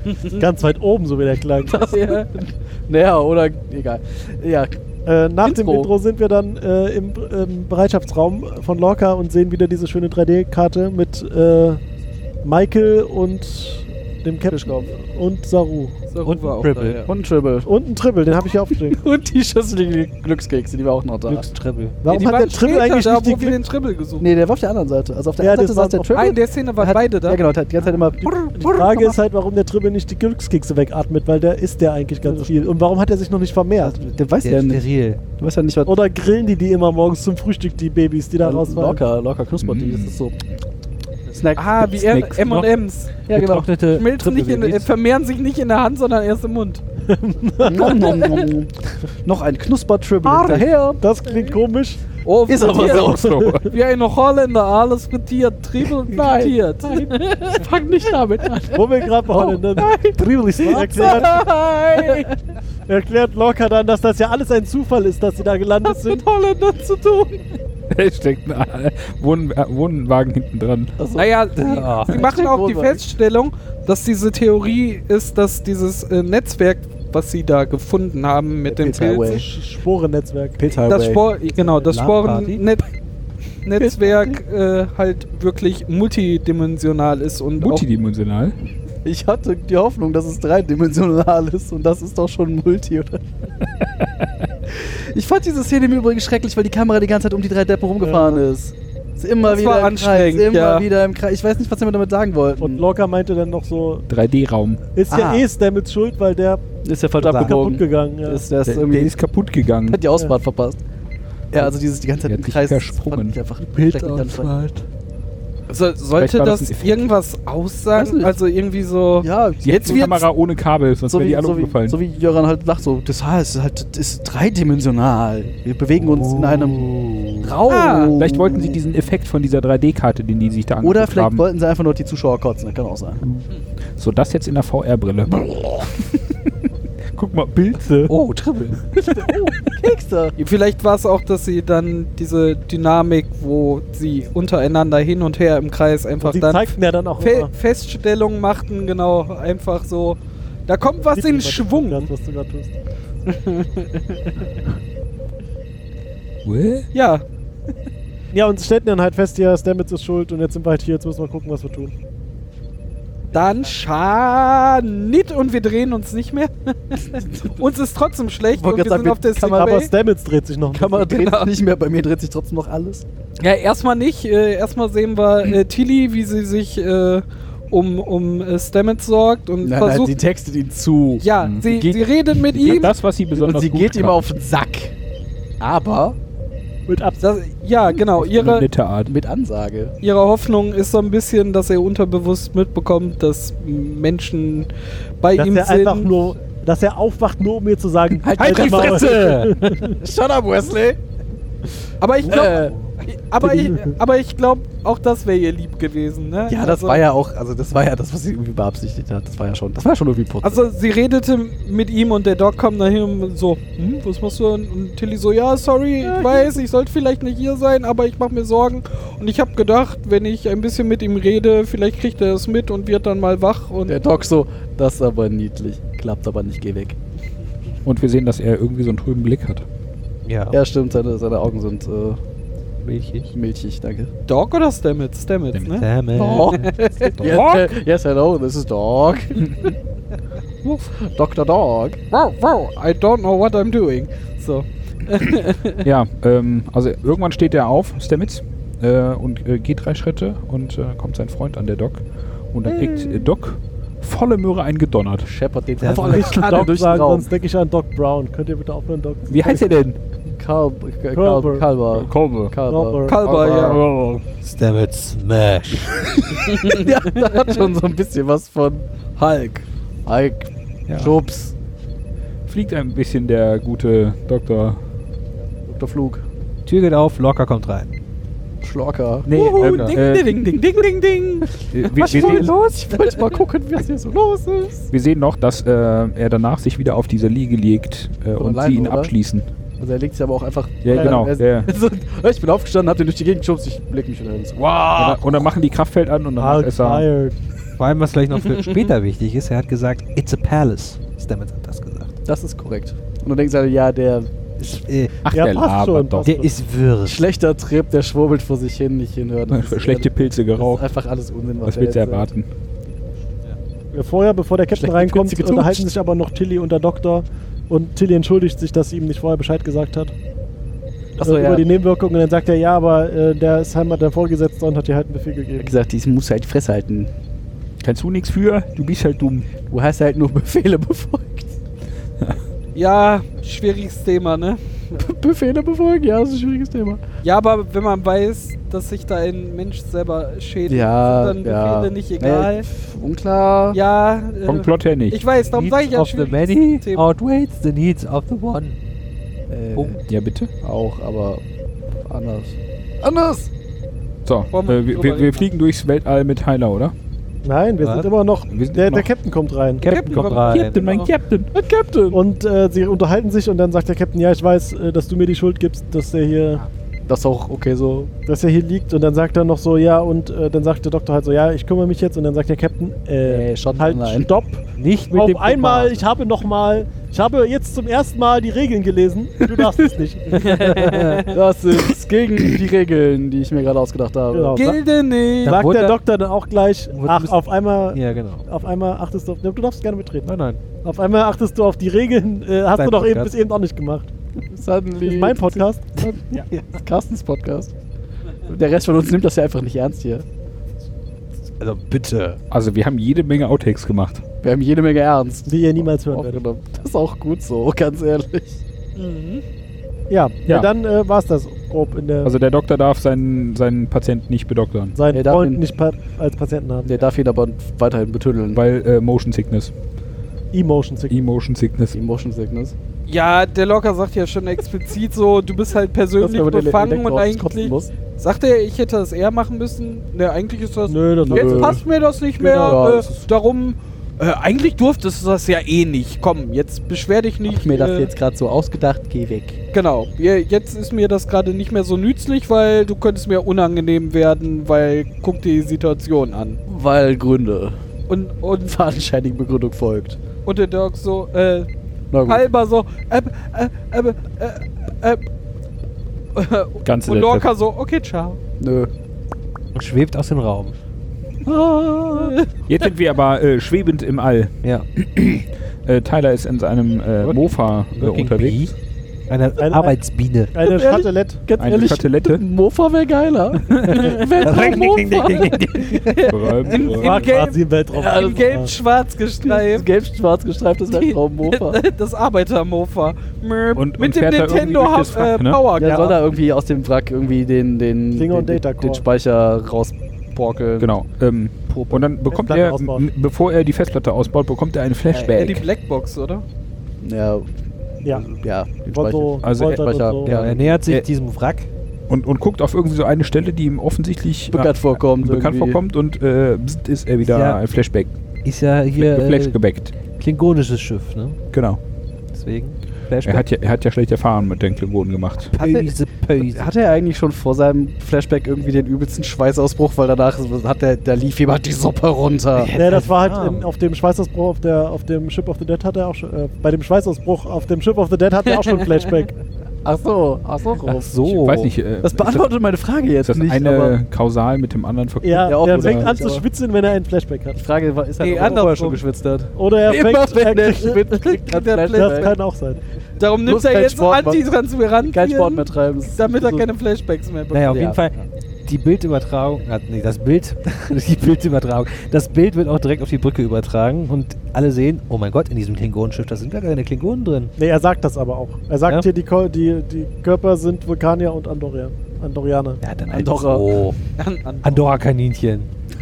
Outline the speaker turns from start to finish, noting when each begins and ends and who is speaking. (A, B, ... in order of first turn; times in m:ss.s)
0:00.3-0:02.0 A
0:01.6-0:04.8 B
0:05.1-0:11.8 A
0:05.4-0:05.9 B
0:12.4-0:16.0 A
0:14.5-0:14.9 B
0:16.1-0:17.1 C
0:16.2-0:17.0 D
0:17.1-0:17.7 B
0:17.6-0:19.0 A
0:18.9-0:21.5 B
0:21.3-0:22.0 D
0:22.0-0:23.6 A
0:22.1-0:24.3 C
0:24.2-0:29.2 B
0:25.4-0:26.1 A
0:26.1-0:27.4 C
0:28.5-0:34.0 A
0:33.8-0:34.8 B
0:34.4-0:35.2 D
0:35.4-0:36.0 B
0:35.8-0:39.0 A
0:38.4-0:40.4 B
0:39.6-0:40.2 E
0:41.3-0:42.6 B
0:41.6-0:43.1 C
0:42.4-0:42.7 D
0:43.2-0:43.7 B
0:43.3-0:44.9 D
0:44.0-0:46.8 C
0:47.0-0:48.2 A
0:47.6-0:48.7 B
0:47.9-0:48.4 C
0:49.2-0:51.0 B
0:50.2-0:52.0 A
0:52.2-0:57.6 C
0:52.5-0:53.5 B
0:52.9-0:53.7 E
0:53.1-0:53.6 A
0:56.0-0:59.9 B
0:58.7-1:01.4 A
0:59.8-1:02.4 C
1:00.2-1:01.0 D
1:00.7-1:02.3 B
1:02.9-1:06.2 A
1:05.9-1:07.4 C
1:07.9-1:11.0 E
1:11.0-1:13.0 B
1:11.2-1:19.4 C
1:11.6-1:12.2 D
1:18.7-1:19.5 B
1:19.3-1:20.6 A
1:20.6-1:21.2 B
1:20.9-1:22.9 C
1:21.6-1:22.6 D
1:23.6-1:27.8 C
1:23.8-1:24.4 B
1:27.6-1:28.6 E
1:29.0-1:33.2 B
1:34.7-1:42.8 B
1:38.0-1:38.5 A
1:39.4-1:40.9 C
1:42.6-1:44.0 A
1:44.1-1:44.8 E
1:45.0-1:46.6 A
1:45.1-1:45.5 B
1:46.8-1:49.1 B
1:47.2-1:48.4 A
1:48.7-1:50.0 E
1:49.9-1:50.8 B
1:51.5-1:54.5 B
1:52.3-1:53.4 E
1:53.8-1:54.8 D
1:55.7-1:56.2 B
1:56.1-1:59.3 C
1:56.2-1:57.0 E
1:58.0-1:58.4 B
1:59.2-2:00.3 B
1:59.6-2:02.0 E
1:59.8-2:00.1 C
2:01.1-2:06.9 B
2:06.0-2:07.6 D
2:07.4-2:08.8 B
2:07.7-2:08.2 C
2:08.2-2:11.4 E
2:10.8-2:13.2 B
2:14.0-2:16.3 E
2:15.3-2:15.9 B
2:17.1-2:18.1 E
2:18.1-2:18.9 D
2:19.0-2:20.4 B
2:20.4-2:32.1 C
2:26.2-2:27.5 A
2:31.0-2:32.7 A
2:33.3-2:34.4 C
2:36.4-2:36.9 E
2:36.9-2:37.2 C
2:38.3-2:41.9 A
2:43.3-2:49.9 C
2:47.1-2:47.7 B
2:48.5-2:49.8 B
2:49.5-2:51.3 A
2:50.7-2:53.0 B
2:53.4-3:00.1 C
2:59.6-3:04.9 B
3:01.2-3:02.9 C
3:02.5-3:04.2 E
3:05.6-3:06.2 B
3:06.9-3:07.2 A
3:07.2-3:08.7 C
3:08.2-3:09.1 E
3:09.1-3:10.0 B
3:10.0-3:14.7 C
3:15.2-3:16.1 C
3:15.4-3:20.0 A
3:18.2-3:21.0 B
3:18.4-3:19.3 D
3:22.0-3:27.0 C
3:22.2-3:22.7 B
3:26.5-3:30.6 B
3:30.4-3:44.0 C
3:36.0-3:36.5 B
3:43.9-3:47.0 B
3:47.8-3:49.6 E
3:50.2-3:50.6 D
3:50.5-3:52.2 B
3:52.8-3:53.3 D
3:53.3-3:54.1 B
3:54.3-3:57.1 C
3:55.8-3:56.7 D
3:56.1-3:59.7 B
3:57.2-3:57.7 E
4:00.9-4:02.0 B
4:02.1-4:05.8 C
4:05.8-4:15.3 E
4:12.6-4:13.4 B
4:15.3-4:17.3 B
4:15.8-4:16.3 D
4:16.1-4:19.7 A
4:19.3-4:20.0 E
4:20.3-4:23.8 B
4:21.2-4:21.7 A
4:21.9-4:22.5 E
4:22.7-4:23.2 A
4:23.1-4:23.8 C
4:23.2-4:24.2 E
4:24.4-4:26.2 D
4:26.4-4:31.5 B
4:26.5-4:27.4 C
4:30.9-4:31.1 D
4:32.5-4:34.8 E
4:35.7-4:36.2 B
4:36.7-4:37.9 D
4:38.6-4:40.0 B
4:39.3-4:40.5 E
4:39.3-4:42.4 C
4:41.7-4:42.5 E
4:42.0-4:44.8 B
4:42.1-4:42.4 D
4:44.9-4:49.5 E
4:48.4-4:49.1 B
4:49.8-4:55.5 B
4:50.8-4:51.7 E
4:50.9-4:51.2 A
4:55.0-4:57.1 E
4:56.4-4:57.3 A
4:57.8-5:02.2 D
5:02.3-5:04.8 B
5:04.6-5:05.1 D
5:05.2-5:06.3 E
5:05.3-5:06.5 A
5:06.2-5:07.2 D
5:07.1-5:12.3 B
5:09.5-5:10.9 E
5:11.6-5:12.5 E
5:13.9-5:20.1 A
5:14.8-5:15.8 B
5:21.2-5:21.6 B
5:21.2-5:25.8 A
5:25.6-5:27.1 B
5:27.8-5:29.5 E
5:29.7-5:31.6 B
5:32.8-5:35.0 C
5:35.0-5:37.0 B
5:37.2-5:42.7 C
5:40.7-5:43.8 B
5:43.7-5:47.1 C
5:44.4-5:45.2 E
5:45.5-5:48.8 D
5:49.5-5:50.0 B
5:50.1-5:50.5 E
5:50.6-5:51.4 B
5:52.1-5:53.5 B
5:54.2-5:56.9 E
5:54.5-5:55.5 C
5:57.4-5:59.8 A
5:57.8-5:58.1 D
5:58.5-5:59.1 E
5:59.8-6:01.5 E
5:59.8-6:00.8 D
5:59.8-6:02.2 C
6:02.1-6:06.6 A
6:07.1-6:08.1 B
6:08.3-6:21.2 A
6:13.2-6:14.3 B
6:14.8-6:16.0 D
6:20.3-6:21.4 C
6:20.8-6:21.2 D
6:21.3-6:24.6 B
6:24.3-6:24.8 A
6:24.5-6:25.8 C
6:25.4-6:26.0 D
6:25.4-6:34.1 A
6:26.9-6:27.4 D
6:27.9-6:28.5 D
6:30.2-6:30.6 D
6:32.8-6:33.3 D
6:34.5-6:37.7 B
6:35.0-6:35.9 A
6:36.0-6:36.6 D
6:38.5-6:40.2 B
6:41.6-6:42.4 D
6:42.5-6:44.2 E
6:44.4-6:48.6 B
6:45.5-6:46.4 A
6:49.0-6:49.4 C
6:50.1-6:52.3 A
6:52.2-6:55.0 E
6:55.0-6:56.9 A
6:55.1-6:55.6 B
6:56.8-6:58.6 B
6:58.5-6:59.7 E
7:00.5-7:01.2 A
7:01.1-7:02.0 E
7:01.9-7:02.7 B
7:03.1-7:18.1 C
7:06.2-7:07.9 B
7:10.9-7:11.8 A
7:11.3-7:11.7 E
7:11.4-7:11.8 B
7:12.4-7:12.8 A
7:12.5-7:13.1 B
7:17.5-7:19.6 B
7:19.7-7:26.6 C
7:26.7-7:27.8 B
7:28.1-7:28.7 C
7:28.6-7:30.2 B
7:30.5-7:31.7 C
7:32.1-7:32.5 B
7:32.2-7:35.2 C
7:36.4-7:38.4 C
7:36.8-7:37.5 E
7:38.6-7:38.9 B
7:39.7-7:40.8 D
7:41.5-7:42.4 B
7:42.1-7:42.5 C
7:42.7-7:48.7 E
7:47.2-7:48.7 D
7:49.3-7:50.5 D
7:49.6-7:50.0 A
7:50.5-7:51.4 A
7:50.6-7:56.3 B
7:51.6-7:52.4 E
7:53.8-7:59.9 C
7:54.2-7:56.7 D
7:56.3-7:57.2 E
7:57.0-7:58.7 A
7:58.0-7:58.5 B
7:59.4-8:01.8 B
8:00.9-8:06.1 C
8:03.8-8:05.6 E
8:05.8-8:10.9 B
8:05.8-8:06.2 A
8:08.1-8:09.0 A
8:10.8-8:15.6 E
8:12.3-8:13.1 A
8:15.1-8:16.4 C
8:17.0-8:17.5 B
8:18.0-8:21.0 B
8:18.9-8:20.3 A
8:19.4-8:19.8 E
8:20.2-8:21.7 D
8:22.1-8:28.1 E
8:24.5-8:25.8 B
8:27.2-8:27.6 D
8:28.4-8:29.6 D
8:29.0-8:30.0 E
8:30.1-8:31.4 D
8:31.5-8:31.8 E
8:32.3-8:33.5 D
8:33.2-8:35.6 E
8:35.6-8:36.7 D
8:35.6-8:42.8 B
8:42.6-8:43.6 D
8:42.8-8:49.3 A
8:49.8-8:51.3 B
8:50.9-8:51.7 D
8:51.3-8:52.5 E
8:52.0-8:54.0 B
8:53.2-8:56.1 E
8:55.2-8:57.6 A
8:55.4-8:56.5 B
8:57.6-9:02.4 B
8:58.2-8:59.0 C
8:59.6-9:01.2 A
9:01.2-9:02.4 C
9:01.9-9:02.8 A
9:03.2-9:07.9 C
9:03.5-9:04.4 B
9:05.0-9:06.3 B
9:07.5-9:17.5 D
9:07.7-9:08.0 B
9:17.6-9:22.8 A
9:22.8-9:24.0 D
9:23.1-9:23.8 B
9:24.2-9:25.0 C
9:24.6-9:25.7 D